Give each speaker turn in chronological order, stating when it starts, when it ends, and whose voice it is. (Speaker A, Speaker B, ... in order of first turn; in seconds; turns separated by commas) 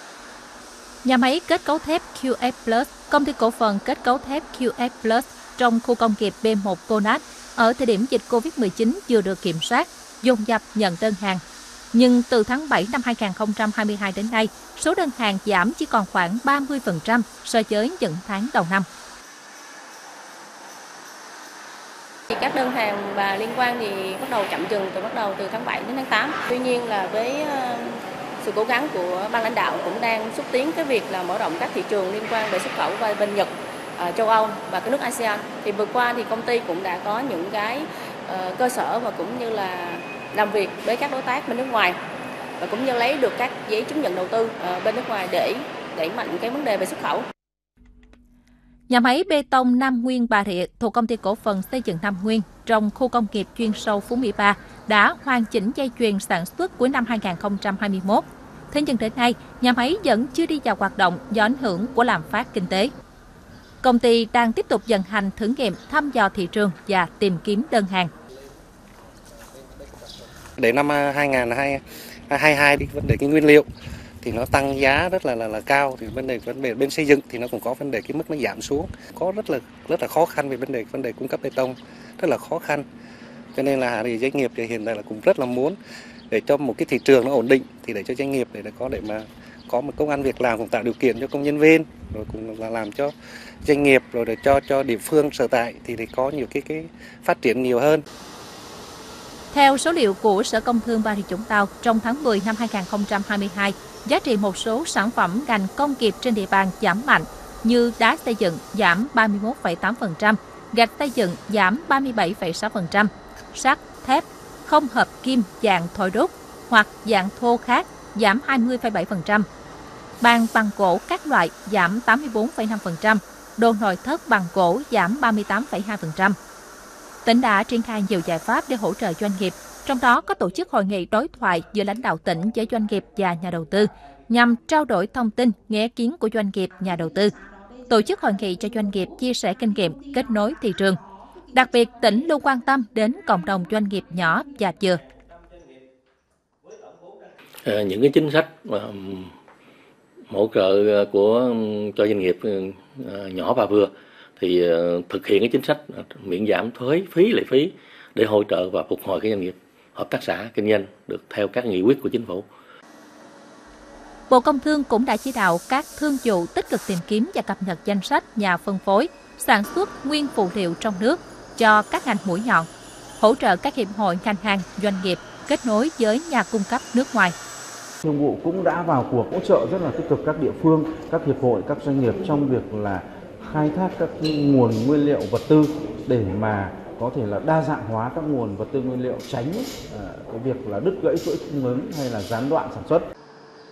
Speaker A: 1.1-11.4, Speaker A: 11.9-18.9, Speaker B: 22.3-42.0, Speaker B: 42.6-47.3, Speaker A: 48.9-62.9, Speaker A: 63.8-68.1, Speaker C: 70.6-73.7, Speaker C: 74.2-82.9, Speaker C: 83.5-85.8, Speaker C: 86.3-93.1, Speaker C: 93.7-98.0, Speaker A: 99.5-119.5, Speaker A: 120.2-126.4, Speaker A: 127.2-137.3, Speaker A: 137.9-141.0, Speaker A: 141.5-145.0, Speaker D: 147.6-149.3, Speaker D: 150.3-162.5, Speaker A: 164.3-172.7, Speaker A: 173.2-177.3, Speaker E: 178.0-193.1